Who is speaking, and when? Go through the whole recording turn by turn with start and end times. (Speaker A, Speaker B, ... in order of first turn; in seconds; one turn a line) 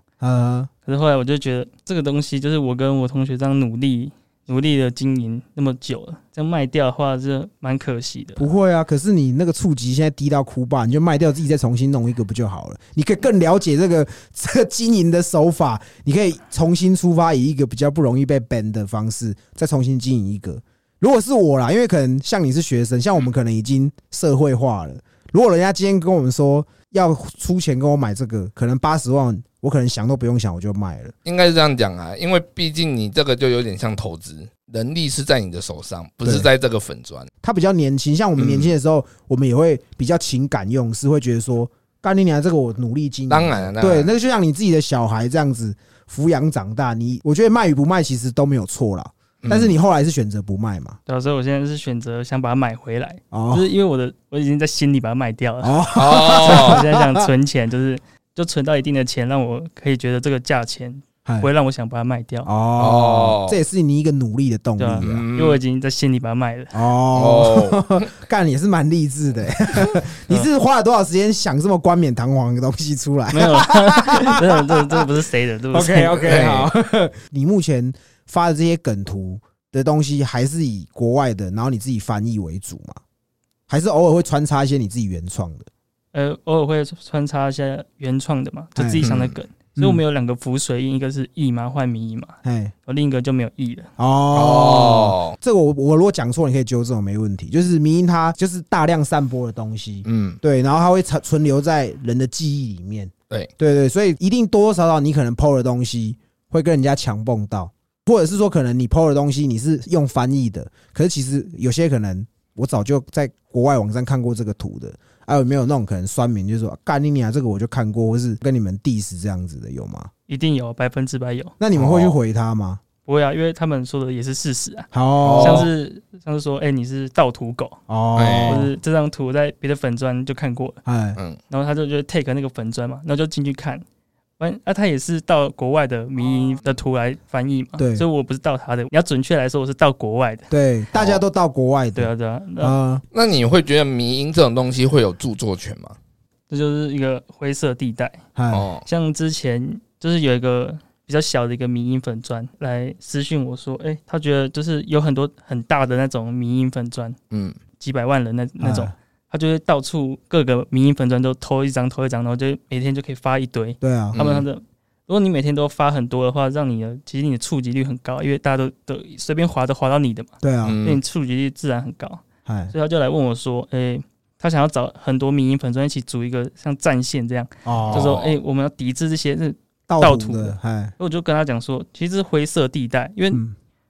Speaker A: 0.2-0.7
Speaker B: 0.9-8.5
Speaker A: 8.4-31.1
Speaker C: 31.2-37.3
Speaker A: 37.4-51.0
Speaker C: 38.4-38.7
Speaker C: 43.3-44.1
Speaker C: 49.4-49.7
Speaker B: 51.1-55.8
Speaker A: 53.3-53.7
Speaker A: 55.6-57.3
Speaker C: 56.0-56.8
Speaker B: 56.4-62.5
Speaker A: 62.5-65.3
Speaker C: 62.8-63.6
Speaker B: 64.8-66.8
Speaker C: 65.0-65.6
Speaker A: 66.7-75.1
Speaker C: 67.1-67.8
Speaker B: 73.3-76.5
Speaker A: 75.7-83.0
Speaker C: 76.2-76.7
Speaker A: 83.7-85.7
Speaker B: 86.1-93.9
Speaker A: 88.8-89.1
Speaker C: 89.0-89.3
Speaker A: 89.8-90.0
Speaker A: 92.4-92.7
Speaker A: 94.0-120.1
Speaker C: 94.3-95.4
Speaker C: 100.0-100.4
Speaker B: 120.3-121.5
Speaker A: 121.6-122.8
Speaker C: 121.8-122.2
Speaker B: 123.1-127.8
Speaker A: 124.9-125.7
Speaker C: 125.2-125.7
Speaker A: 127.9-128.7
Speaker C: 128.2-128.7
Speaker B: 128.5-130.8
Speaker A: 130.8-131.2
Speaker B: 131.5-133.8
Speaker B: 134.4-140.5
Speaker A: 137.8-138.1
Speaker A: 140.5-143.0
Speaker C: 140.9-141.2
Speaker B: 142.0-142.8
Speaker C: 143.1-146.0
Speaker B: 146.5-148.2
Speaker A: 148.4-148.7
Speaker C: 148.5-148.8
Speaker B: 148.8-157.2
Speaker C: 157.3-157.6
Speaker B: 157.8-170.3
Speaker A: 158.6-158.9
Speaker A: 163.8-164.2
Speaker C: 164.2-164.5
Speaker A: 170.4-170.8
Speaker C: 170.6-171.0
Speaker B: 170.8-183.4
Speaker A: 172.5-172.7
Speaker A: 177.7-178.2
Speaker C: 177.9-178.4
Speaker A: 179.9-180.9